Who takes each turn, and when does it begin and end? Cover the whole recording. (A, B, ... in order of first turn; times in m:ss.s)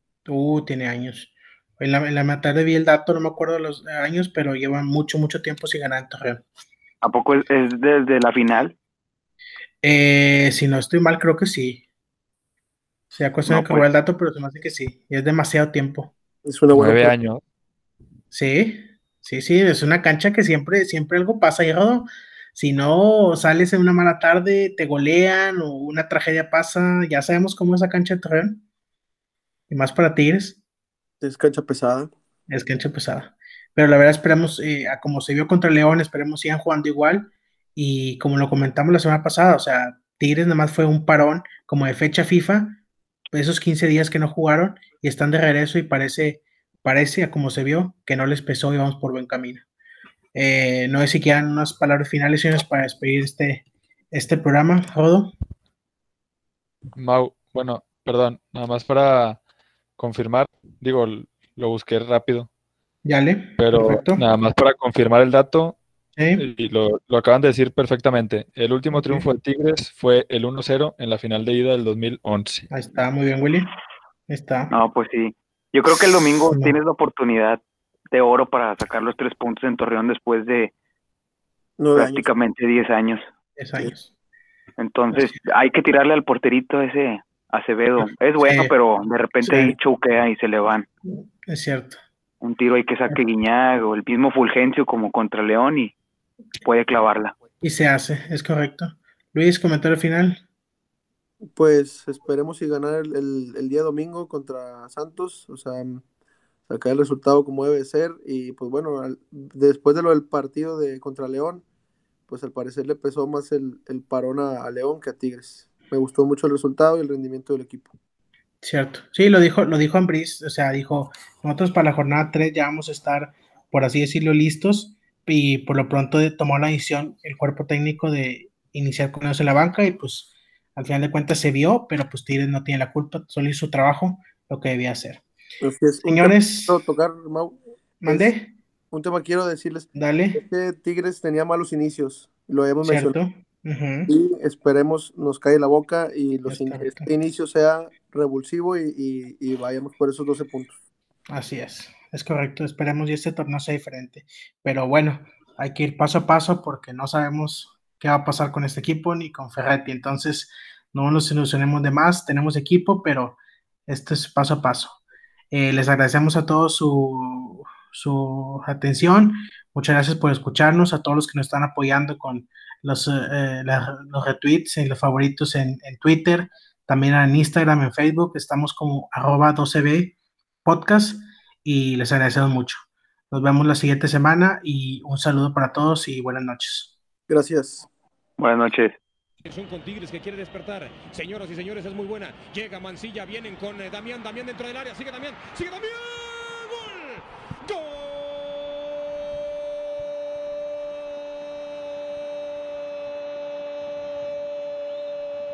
0:00.3-0:06.4 A
0:07.0-0:08.8 B
0:09.8-0:11.8 A
0:13.2-0:16.1 A
0:13.5-0:13.9 B
0:16.4-0:17.2 C
0:16.7-0:17.4 D
0:18.3-0:28.6 A
0:29.7-0:30.6 A
0:31.2-0:32.1 C
0:32.5-0:42.8 A
0:43.3-0:49.6 A
0:50.3-0:55.3 A
0:57.0-0:59.4 D
1:00.0-1:02.5 D
1:03.0-1:04.2 A
1:03.6-1:05.8 D
1:06.2-1:06.4 A
1:06.4-1:12.7 D
1:08.9-1:09.3 A
1:12.7-1:13.7 A
1:14.3-1:14.7 A
1:14.7-1:17.6 B
1:16.5-1:16.8 A
1:18.1-1:20.7 B
1:21.8-1:22.3 C
1:21.9-1:23.2 B
1:23.6-1:24.1 A
1:24.8-1:30.9 B
1:28.0-1:28.7 A
1:29.4-1:29.8 A
1:31.1-1:32.0 A
1:32.4-1:35.9 B
1:36.6-1:37.4 B
1:37.6-1:40.4 A
1:41.5-1:46.0 C
1:46.7-1:51.6 C
1:52.3-1:57.9 C
1:58.6-2:15.2 A
2:15.6-2:18.3 C
2:16.0-2:16.8 A
2:18.0-2:18.5 A
2:18.9-2:23.2 C
2:20.0-2:20.4 A
2:22.8-2:24.1 A
2:24.1-2:30.8 C
2:26.5-2:27.1 A
2:31.3-2:45.0 A
2:45.5-3:06.9 A
3:07.3-3:07.9 C
3:08.4-3:09.0 B
3:09.4-3:18.8 E